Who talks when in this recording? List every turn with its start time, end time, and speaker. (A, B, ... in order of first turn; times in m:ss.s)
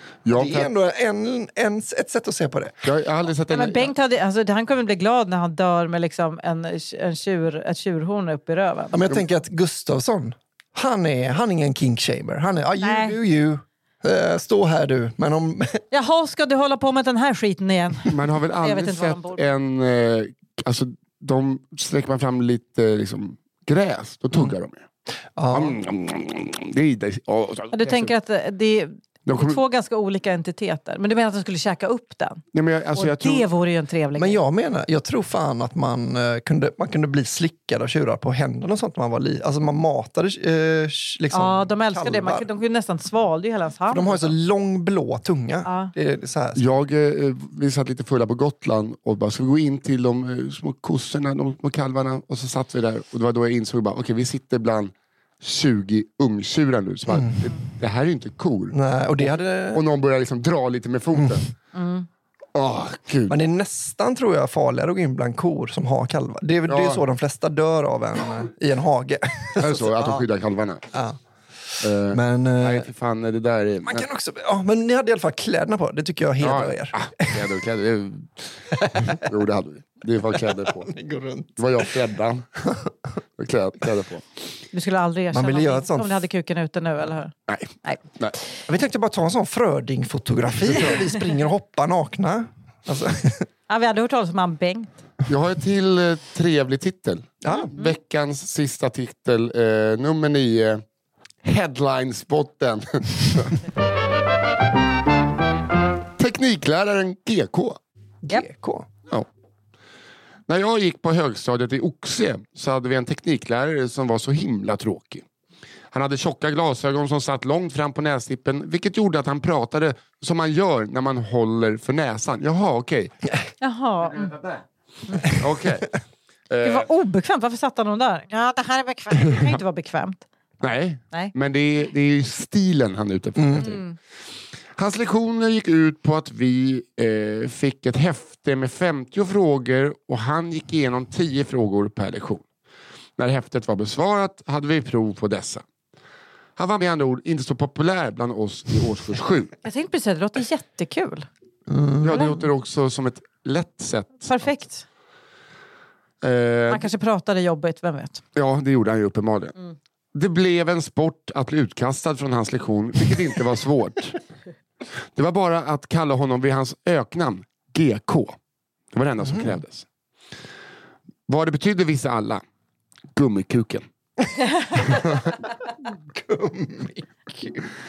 0:00.2-0:00.7 A
0:00.3-0:02.8 B
0:02.8-0:03.9 A
0:03.5-0:09.0 C
0:08.9-0:15.8 B
0:12.8-0:13.2 C
0:15.9-0:19.4 C
0:18.0-0:24.8 A
0:25.4-0:25.8 B
0:25.5-0:28.1 A
0:27.7-0:32.4 C
0:29.2-0:29.6 A
0:32.5-0:33.5 A
0:33.0-0:34.4 C
0:34.2-0:42.4 B
0:41.3-0:44.3 C
0:43.9-0:46.6 B
0:45.6-0:45.9 C
0:46.6-1:01.4 A
0:57.1-0:57.4 B
0:58.7-0:59.8 B
1:01.7-1:02.0 C
1:02.5-1:03.4 A
1:03.3-1:10.2 B
1:06.7-1:07.0 A
1:09.6-1:10.8 A
1:10.9-1:11.2 B
1:11.7-1:12.9 B
1:11.8-1:14.0 A
1:13.8-1:17.4 B
1:16.4-1:20.9 A
1:18.7-1:19.2 B
1:20.6-1:21.6 B
1:21.6-1:22.4 A
1:23.4-1:24.3 A
1:24.7-1:28.0 C
1:25.3-1:26.2 B
1:27.5-1:28.4 A
1:28.7-1:33.5 B
1:33.7-1:35.0 C
1:35.3-1:40.8 A
1:37.4-1:37.7 B
1:41.4-1:43.6 A
1:46.2-1:47.8 A
1:48.2-1:48.9 B
1:50.5-1:55.2 A
1:55.9-2:03.1 A
2:03.6-2:04.4 C
2:05.1-2:05.4 C
2:05.3-2:05.9 A
2:06.5-2:06.9 A
2:06.6-2:10.2 C
2:10.6-2:13.8 A
2:13.4-2:13.7 B
2:13.6-2:13.9 C
2:14.8-2:22.4 A
2:23.2-2:25.6 A
2:26.6-2:29.5 A
2:29.6-2:31.3 C
2:31.7-2:32.4 B
2:32.0-2:34.3 A
2:32.1-2:32.4 C
2:34.2-2:34.8 C
2:36.2-2:36.9 A
2:36.7-2:38.2 C
2:38.4-2:39.5 A
2:40.1-2:44.2 A
2:45.1-2:48.4 A
2:48.9-2:49.9 A
2:51.3-2:52.4 A
2:53.1-2:53.8 A
2:54.8-2:55.3 A
2:56.1-2:57.6 B